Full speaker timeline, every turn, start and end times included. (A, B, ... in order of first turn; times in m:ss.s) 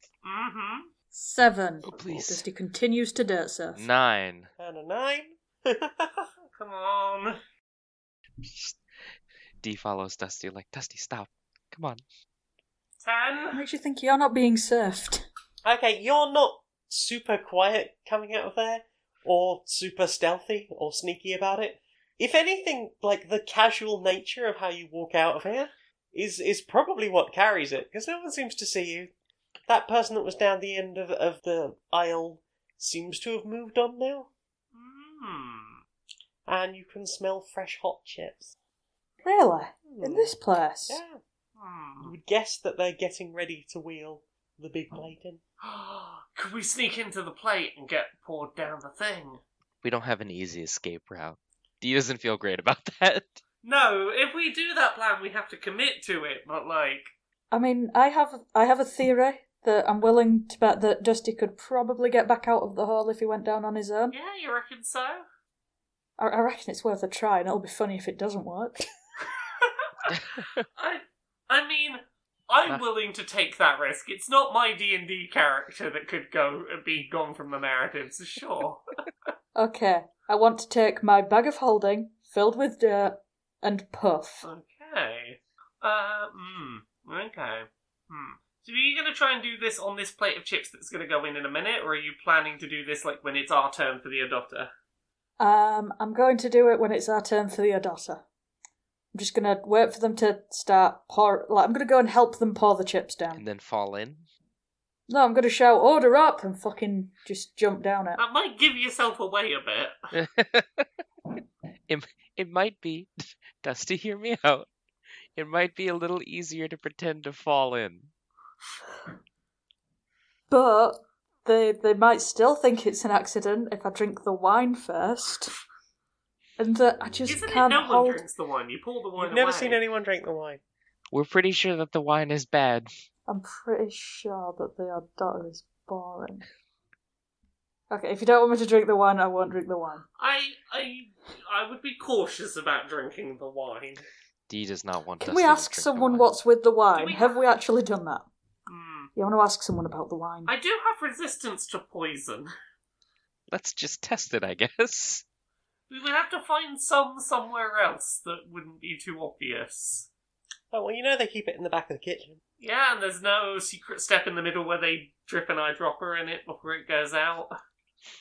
0:00.2-0:00.9 A
0:01.1-0:03.8 B
0:01.8-0:02.4 C
0:03.7-0:04.5 C
0:04.6-0:06.3 D
0:06.6-0:07.4 A
0:08.4-0:08.8 C
0:09.6-0:12.0 C
0:13.0-0:13.6 A
0:13.5-0:15.3 B
0:15.6-0:29.1 D
0:29.7-0:34.3 D
0:34.7-0:35.8 A
0:36.5-0:38.5 D
0:39.2-0:41.0 B
0:39.8-0:40.3 D
0:40.9-0:41.2 D
0:41.6-0:42.1 A
0:42.0-0:45.4 D
0:45.6-0:49.4 A
0:49.8-0:53.4 C
0:53.6-0:57.1 A
0:57.5-1:04.2 B
1:04.1-1:05.2 A
1:06.2-1:08.9 B
1:09.6-1:10.1 A
1:10.1-1:10.6 C
1:10.8-1:18.9 A
1:19.5-1:24.5 B
1:24.4-1:34.7 A
1:35.4-1:38.2 B
1:39.1-1:43.4 B
1:43.3-1:44.3 C
1:45.1-1:48.2 B
1:48.2-1:49.9 A
1:50.1-1:50.9 C
1:51.9-1:54.7 C
1:55.3-1:58.1 C
2:00.5-2:05.5 B
2:06.6-2:08.2 B
2:07.3-2:09.8 A
2:09.2-2:10.6 D
2:11.1-2:12.9 C
2:13.3-2:16.4 B
2:17.9-2:20.0 B
2:20.2-2:24.0 A
2:24.5-2:26.3 C
2:25.2-2:28.3 B
2:26.9-2:27.4 A
2:28.7-2:29.1 A
2:29.2-2:30.5 B
2:30.5-2:32.5 A
2:33.5-2:35.2 C
2:35.9-2:40.1 A
2:40.7-2:42.4 D
2:42.6-2:47.5 A